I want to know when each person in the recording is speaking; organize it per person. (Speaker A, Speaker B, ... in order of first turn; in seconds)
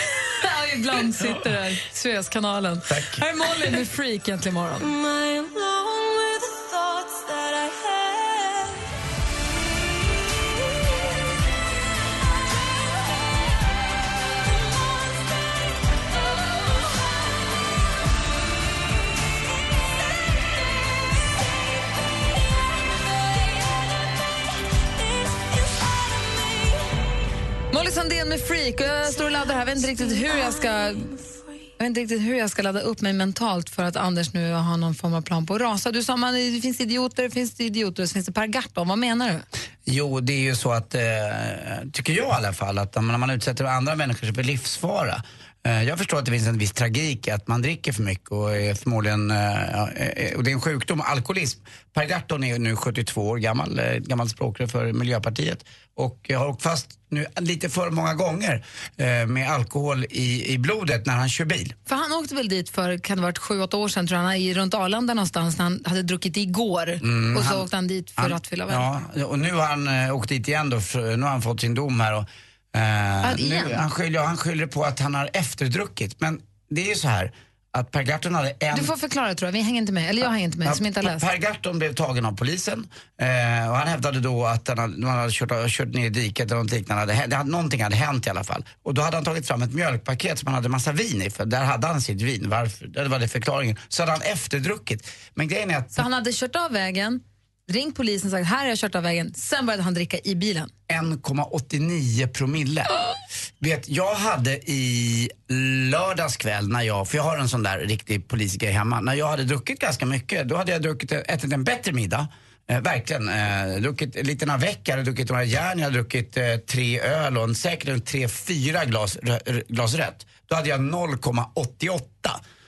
Speaker A: 0.3-4.9, 27.7-31.1, 31.8-39.4, 61.9-68.9, 73.2-73.8, 78.7-81.3, 95.9-100.7
Speaker B: 2.9-3.2, 39.9-61.7, 67.0-67.7, 68.2-78.9, 80.6-96.0, 100.9-103.0, 103.6-122.4